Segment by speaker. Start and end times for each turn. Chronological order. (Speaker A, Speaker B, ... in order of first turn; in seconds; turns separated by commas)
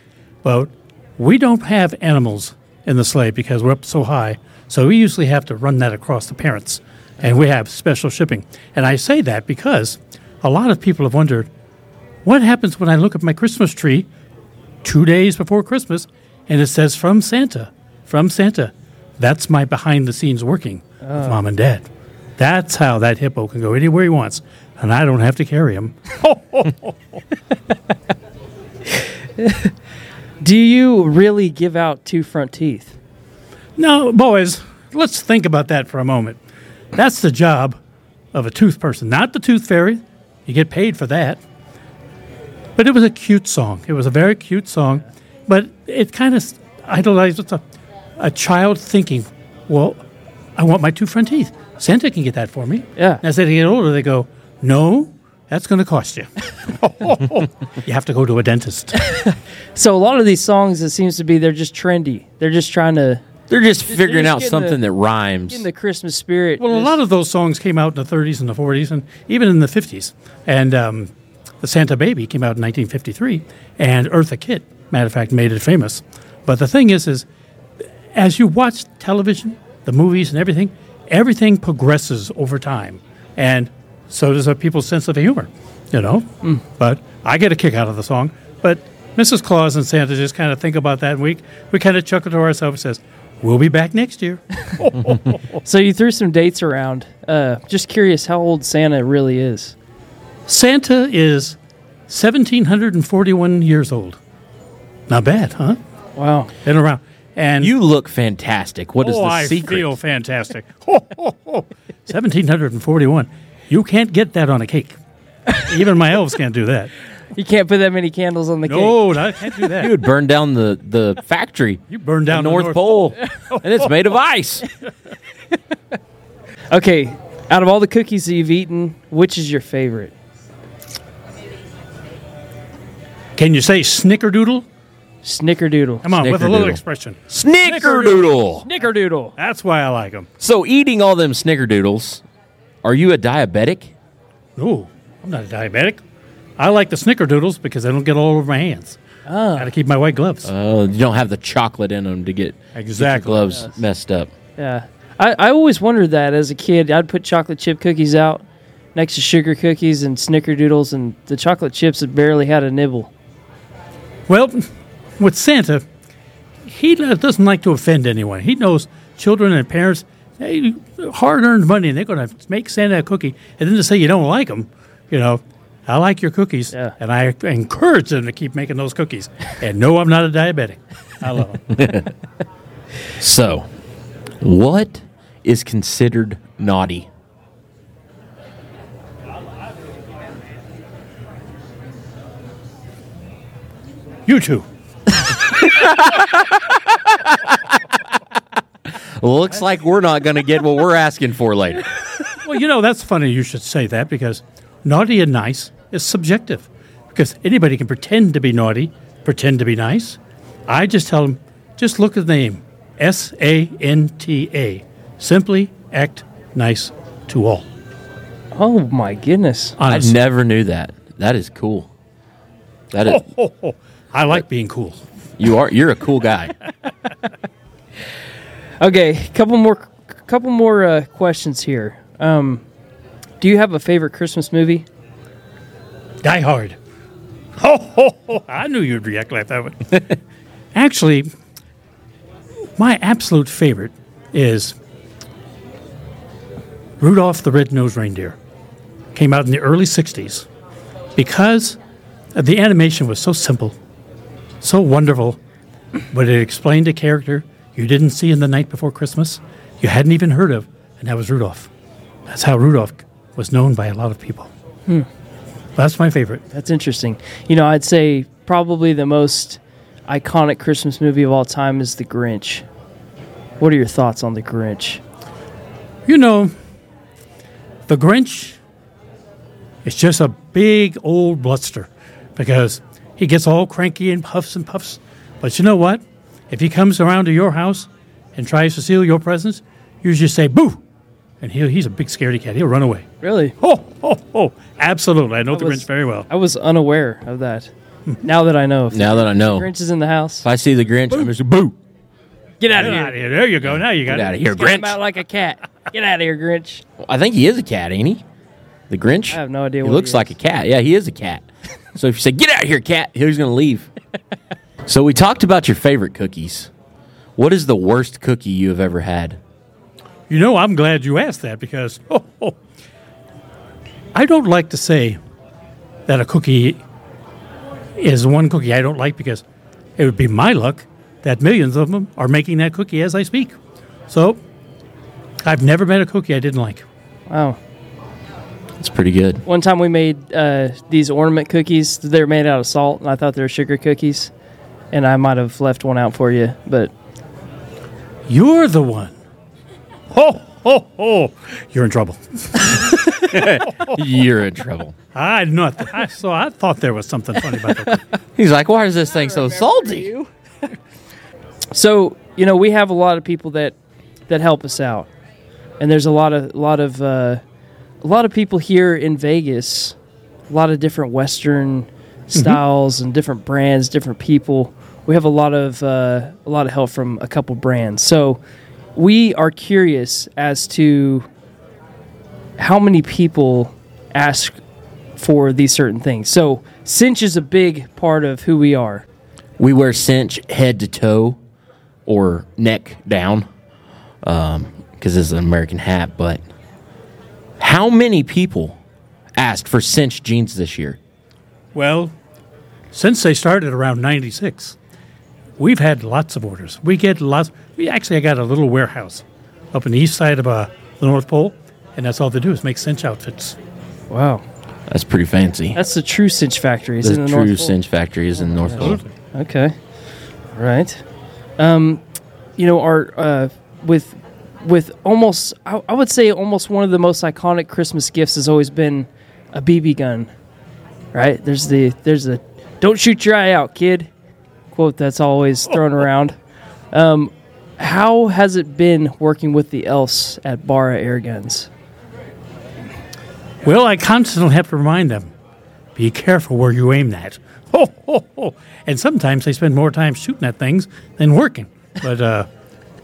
Speaker A: 0.4-11.5, Speaker A: 12.2-14.1, Speaker A: 14.8-21.9, Speaker B: 21.0-21.4, Speaker A: 22.4-26.9, Speaker B: 28.9-29.7, Speaker B: 30.4-32.9, Speaker A: 33.8-36.4, Speaker A: 36.9-37.8, Speaker A: 38.3-41.4, Speaker A: 42.8-47.6, Speaker A: 48.2-50.0, Speaker A: 50.6-59.0, Speaker B: 53.0-53.2, Speaker B: 59.0-63.2, Speaker C: 63.5-65.7, Speaker B: 63.9-64.8, Speaker B: 65.5-67.0, Speaker A: 66.6-77.3, Speaker A: 78.1-95.5, Speaker B: 95.6-99.7, Speaker A: 100.5-101.6, Speaker A: 102.1-104.2, Speaker A: 105.1-105.8, Speaker B: 106.2-106.5, Speaker A: 106.6-107.7, Speaker C: 107.6-109.9, Speaker A: 109.0-115.0, Speaker A: 115.6-116.9, Speaker B: 117.3-119.7, Speaker A: 118.6-120.0, Speaker C: 119.7-124.7, Speaker A: 121.9-123.7, Speaker B: 126.7-130.1, Speaker A: 133.4-134.6, Speaker B: 135.2-136.1, Speaker A: 136.0-138.4, Speaker C: 136.1-138.7, Speaker B: 138.6-139.3, Speaker A: 139.4-140.3, Speaker C: 140.4-142.2, Speaker C: 142.8-143.9, Speaker A: 144.6-146.0, Speaker A: 146.6-149.0, Speaker B: 149.2-149.7, Speaker A: 149.6-150.5, Speaker C: 150.4-154.3, Speaker A: 152.7-153.6, Speaker B: 154.6-158.4, Speaker B: 158.9-163.1, Speaker A: 164.3-164.7, Speaker A: 165.2-165.8, Speaker A: 166.7-181.7, Speaker C: 181.7-182.1, Speaker C: 183.2-183.7, Speaker C: 184.4-187.1, Speaker A: 194.2-194.6, Speaker C: 195.4-197.7, Speaker C: 199.2-201.9, Speaker A: 202.3-217.6, Speaker B: 218.5-219.8, Speaker A: 219.8-220.2, Speaker C: 219.8-221.9, Speaker C: 222.9-223.2, Speaker A: 223.1-225.0, Speaker C: 225.4-226.5, Speaker B: 228.8-232.6, Speaker B: 233.4-234.8, Speaker A: 236.2-236.8, Speaker A: 237.6-240.2, Speaker A: 240.7-241.3, Speaker A: 242.8-244.8, Speaker A: 247.0-248.4, Speaker A: 249.1-250.5, Speaker A: 251.2-251.8, Speaker A: 252.3-253.8, Speaker A: 254.6-255.4, Speaker A: 256.1-261.7, Speaker A: 262.3-264.5, Speaker A: 265.8-266.4, Speaker B: 266.5-272.6, Speaker B: 273.6-275.0, Speaker A: 276.1-276.5, Speaker A: 277.9-278.6, Speaker A: 279.8-290.8, Speaker A: 291.4-293.1, Speaker B: 293.2-293.6, Speaker A: 293.6-296.3, Speaker B: 295.5-297.7, Speaker B: 298.2-300.4, Speaker C: 298.9-299.7, Speaker C: 300.4-301.8, Speaker B: 302.6-303.2, Speaker A: 302.7-304.4, Speaker C: 303.6-305.0, Speaker B: 304.5-306.8, Speaker C: 307.0-308.2, Speaker C: 308.9-313.9, Speaker B: 309.3-310.4, Speaker C: 314.8-316.7, Speaker C: 317.4-319.4, Speaker A: 320.3-322.6, Speaker A: 324.1-325.2, Speaker A: 326.1-326.8, Speaker A: 328.0-329.4, Speaker A: 330.0-333.5, Speaker A: 334.1-334.4, Speaker A: 335.4-336.8, Speaker B: 337.3-337.6, Speaker C: 338.8-339.4, Speaker B: 339.4-344.3, Speaker B: 344.9-346.9, Speaker A: 348.3-349.1, Speaker A: 350.1-352.9, Speaker C: 353.0-354.9, Speaker A: 355.1-358.0, Speaker C: 358.3-360.1, Speaker B: 359.2-360.3, Speaker B: 361.7-363.7, Speaker B: 364.3-365.1, Speaker B: 365.8-367.4, Speaker B: 368.0-369.9, Speaker B: 370.5-378.4, Speaker A: 372.3-372.6, Speaker B: 378.9-381.2, Speaker B: 382.6-384.6, Speaker B: 385.2-389.0, Speaker C: 389.6-391.4, Speaker C: 392.1-393.4, Speaker C: 394.2-396.4, Speaker C: 397.6-398.8, Speaker C: 399.4-401.0, Speaker A: 401.7-402.1, Speaker A: 402.9-404.8, Speaker A: 405.6-413.6, Speaker B: 414.1-414.4, Speaker C: 414.9-415.8, Speaker B: 415.7-417.8, Speaker C: 417.0-419.0, Speaker A: 418.7-419.1, Speaker B: 419.3-419.7, Speaker B: 420.6-421.0, Speaker B: 421.6-422.0, Speaker B: 422.6-430.3, Speaker B: 431.1-434.1, Speaker B: 434.7-436.3, Speaker B: 436.9-441.7, Speaker A: 443.6-445.3, Speaker A: 445.9-452.5